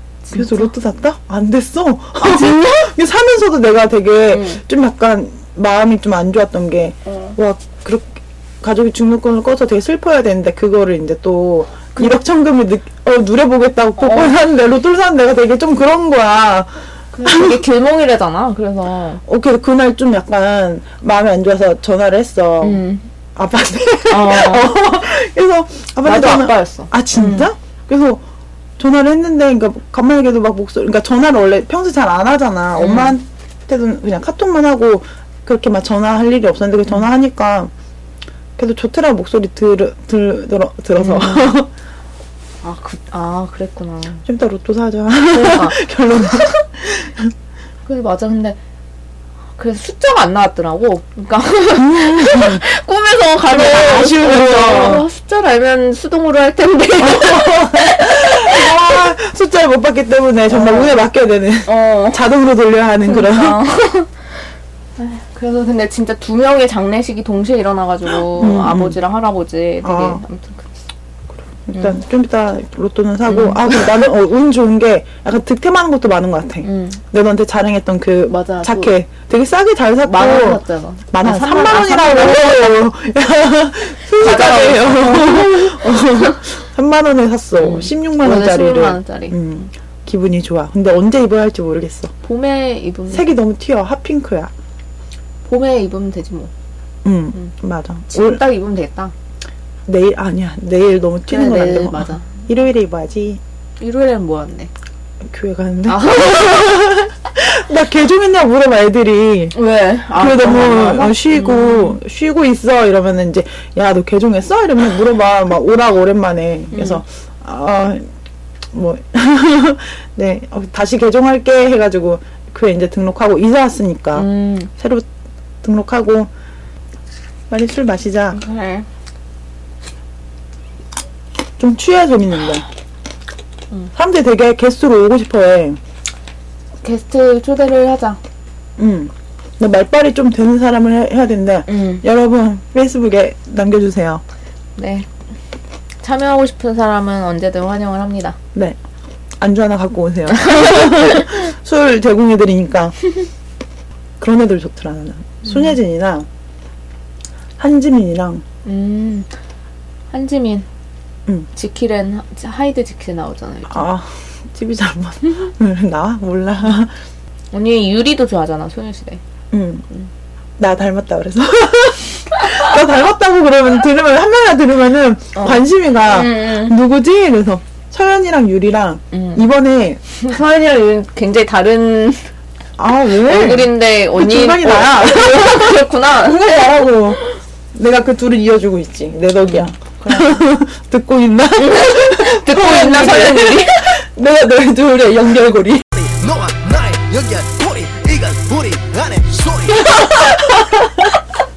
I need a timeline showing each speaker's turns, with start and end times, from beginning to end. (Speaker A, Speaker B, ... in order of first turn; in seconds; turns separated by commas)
Speaker A: 0.2-0.7, Speaker B: 0.3-16.7, Speaker A: 2.2-2.8, Speaker A: 4.3-4.6, Speaker A: 7.1-7.3, Speaker A: 11.9-12.2, Speaker A: 14.0-14.3, Speaker A: 17.1-19.2, Speaker B: 17.2-17.6, Speaker B: 19.2-22.8, Speaker A: 22.6-23.0, Speaker B: 23.4-28.2, Speaker A: 24.1-24.7, Speaker A: 26.0-27.5, Speaker B: 28.8-37.7, Speaker A: 32.8-33.1, Speaker B: 38.6-41.7, Speaker A: 41.0-41.6, Speaker A: 42.6-44.2, Speaker B: 44.2-47.3, Speaker A: 45.3-46.6, Speaker A: 47.9-48.6, Speaker A: 49.6-58.8, Speaker B: 51.8-52.6, Speaker B: 53.5-55.1, Speaker B: 57.0-63.6, Speaker A: 60.5-61.0, Speaker A: 61.6-62.2, Speaker A: 63.0-64.3, Speaker A: 65.0-70.7, Speaker B: 68.3-69.0, Speaker B: 69.8-70.2, Speaker B: 71.7-92.1, Speaker A: 73.3-73.9, Speaker A: 76.6-77.0, Speaker A: 78.3-78.9, Speaker A: 80.0-82.8, Speaker A: 84.1-86.3, Speaker A: 87.6-89.4, Speaker A: 92.2-93.4, Speaker B: 93.1-94.5, Speaker A: 95.4-96.5, Speaker B: 97.0-98.4, Speaker A: 98.1-99.1, Speaker B: 99.9-103.4, Speaker A: 101.3-102.2, Speaker A: 103.8-104.7, Speaker B: 105.2-109.5, Speaker A: 105.8-106.7, Speaker A: 109.5-112.0, Speaker B: 110.1-118.0, Speaker A: 116.7-117.0, Speaker B: 118.7-125.1, Speaker A: 124.1-124.7, Speaker B: 125.6-126.3, Speaker B: 127.5-128.4, Speaker A: 128.3-128.8, Speaker B: 131.6-132.7, Speaker B: 133.9-135.8, Speaker A: 136.8-138.2, Speaker B: 138.8-144.2, Speaker A: 141.7-142.0, Speaker A: 144.8-145.1, Speaker A: 146.0-148.4, Speaker B: 149.4-152.9, Speaker A: 150.3-151.4, Speaker B: 154.2-156.3, Speaker B: 157.6-158.4, Speaker A: 158.6-159.3, Speaker A: 160.1-160.7, Speaker A: 161.5-163.8, Speaker B: 163.7-166.9, Speaker A: 167.5-169.2, Speaker B: 169.5-169.9, Speaker B: 170.6-180.0, Speaker A: 175.3-176.8, Speaker A: 179.1-179.5, Speaker A: 180.2-182.3, Speaker B: 182.8-187.2, Speaker A: 183.2-186.9, Speaker B: 187.7-195.8, Speaker A: 189.4-190.2, Speaker A: 191.6-194.0, Speaker C: 196.1-199.7, Speaker B: 199.7-201.2